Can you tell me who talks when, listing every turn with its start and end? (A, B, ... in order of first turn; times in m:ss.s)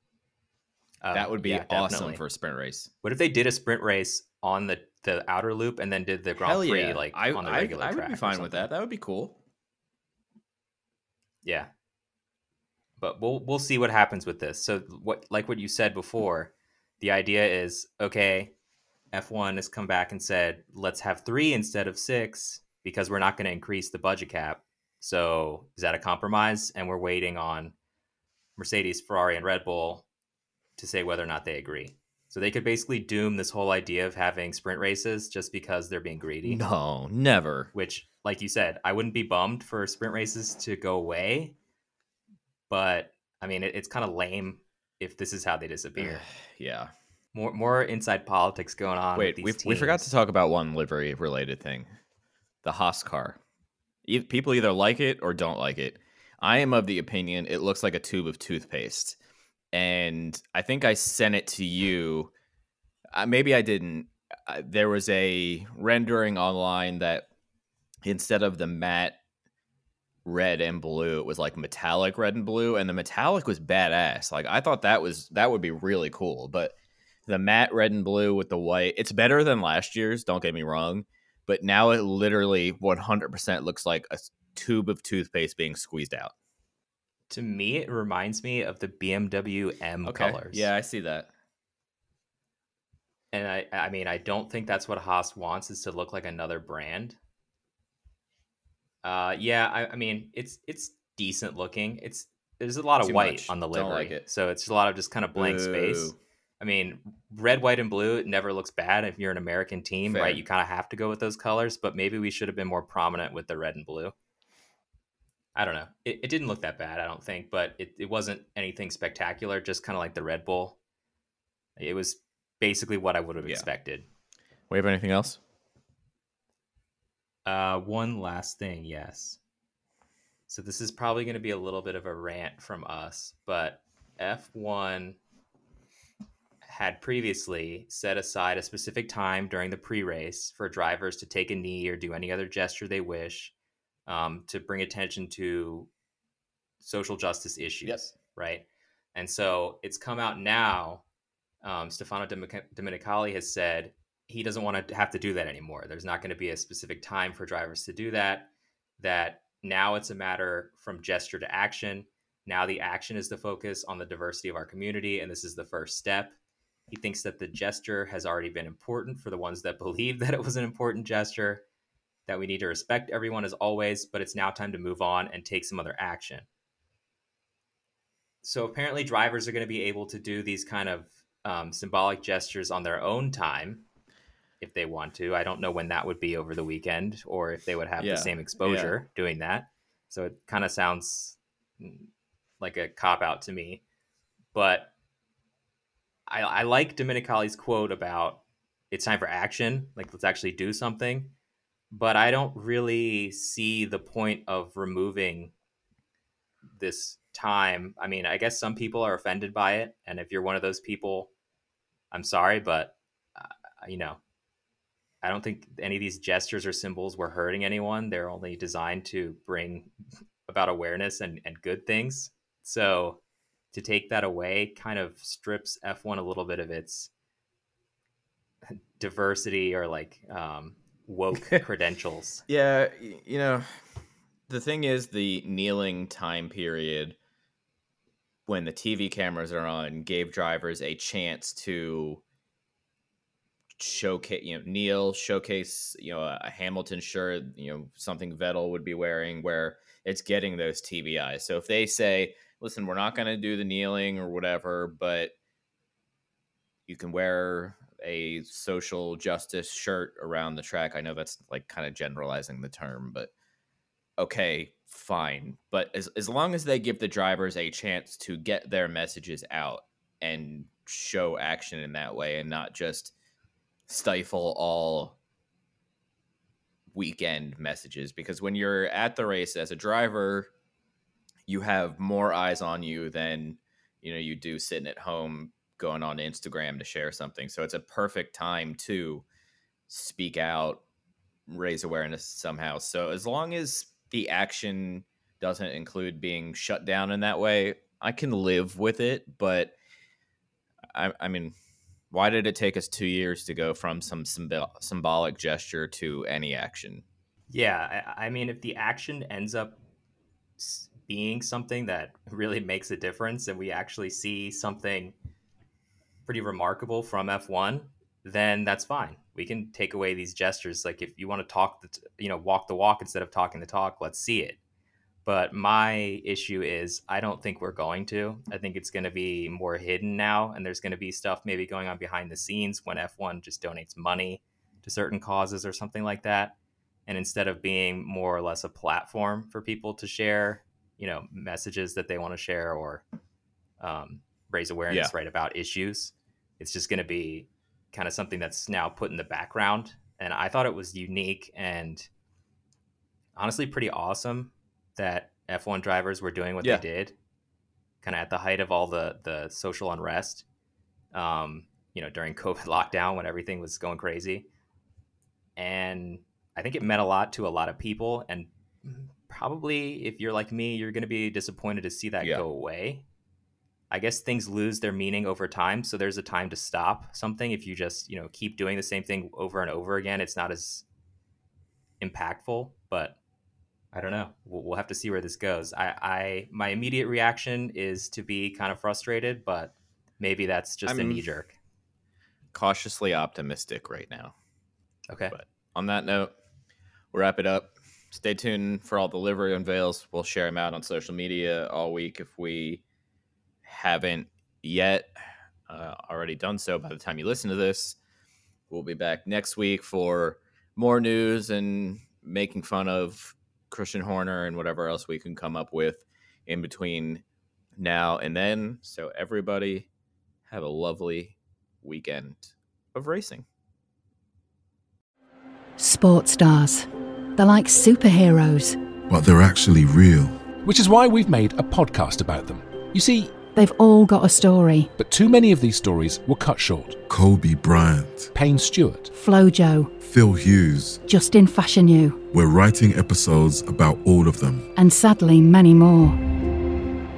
0:01.0-0:02.2 A
0:01.1-0:02.9 B
0:03.0-0:08.7 A
0:06.4-0:09.4 B
0:11.4-0:11.7 A
0:13.0-0:18.5 A
0:19.1-0:27.8 A
0:28.6-0:30.1 A
0:30.8-0:36.6 A
0:36.4-0:37.7 B
0:37.7-0:41.5 A
0:42.7-0:46.2 A
0:46.0-0:46.9 B
0:47.3-0:50.1 A
0:49.2-0:51.9 B
0:52.6-0:53.4 B
0:54.1-0:59.2 B
0:59.7-1:02.3 B
1:03.1-1:07.3 B
1:08.0-1:09.2 B
1:10.2-1:16.7 B
1:17.3-1:26.3 B
1:27.3-1:30.7 A
1:30.0-1:31.3 B
1:33.3-1:37.2 A
1:39.0-1:54.1 A
1:43.0-1:44.2 B
1:45.4-1:46.2 B
1:50.1-1:50.4 B
1:55.6-2:00.8 A
2:01.8-2:04.1 A
2:03.4-2:03.7 B
2:04.7-2:05.4 B
2:07.5-2:09.4 A
2:10.5-2:15.2 A
2:16.6-2:23.5 A
2:24.1-2:25.9 A
2:26.8-2:31.0 A
2:27.8-2:28.1 B
2:31.6-2:46.4 A
2:46.9-2:51.6 A
2:52.3-2:56.5 A
2:58.4-3:03.8 A
3:04.6-3:12.1 A
3:08.0-3:09.0 B
3:12.6-3:13.8 A
3:14.5-3:14.9 A
3:16.3-3:21.3 A
3:21.9-3:25.5 A
3:26.8-3:31.3 A
3:32.1-3:34.2 A
3:35.2-3:39.9 A
3:40.5-3:43.2 A
3:43.7-3:47.1 A
3:48.7-3:52.4 A
3:52.5-3:53.7 B
3:54.5-3:57.2 B
3:58.5-4:02.2 B
4:03.8-4:15.3 B
4:16.9-4:23.3 B
4:24.2-4:33.1 B
4:33.9-4:35.2 B
4:36.9-4:40.5 B
4:41.5-4:49.2 B
4:49.9-4:50.8 B
4:51.5-4:59.8 B
5:00.9-5:01.6 B
5:02.1-5:07.0 B
5:07.5-5:09.8 A
5:10.6-5:15.2 A
5:16.3-5:24.6 A
5:25.2-5:36.6 A
5:37.1-5:43.0 A
5:43.8-5:52.1 A
5:53.4-5:57.1 A
5:58.0-6:00.4 A
6:01.1-6:04.5 A
6:05.6-6:13.0 A
6:13.9-6:20.8 A
6:22.0-6:23.2 A
6:23.9-6:31.6 A
6:30.9-6:31.2 B
6:32.5-6:34.3 B
6:35.1-6:35.4 A
6:35.3-6:36.3 B
6:37.1-6:42.8 B
6:43.6-6:45.1 B
6:45.7-6:48.0 B
6:48.7-6:57.2 B
6:57.8-6:59.9 B
7:00.5-7:03.5 B
7:05.8-7:08.8 C
7:09.1-7:10.5 D
7:10.6-7:13.4 E
7:13.5-7:14.9 C
7:15.0-7:17.0 E
7:17.1-7:18.3 D
7:18.3-7:19.1 E
7:19.1-7:20.0 C
7:20.0-7:21.0 D
7:21.1-7:22.2 C
7:22.3-7:24.7 D
7:24.8-7:26.2 C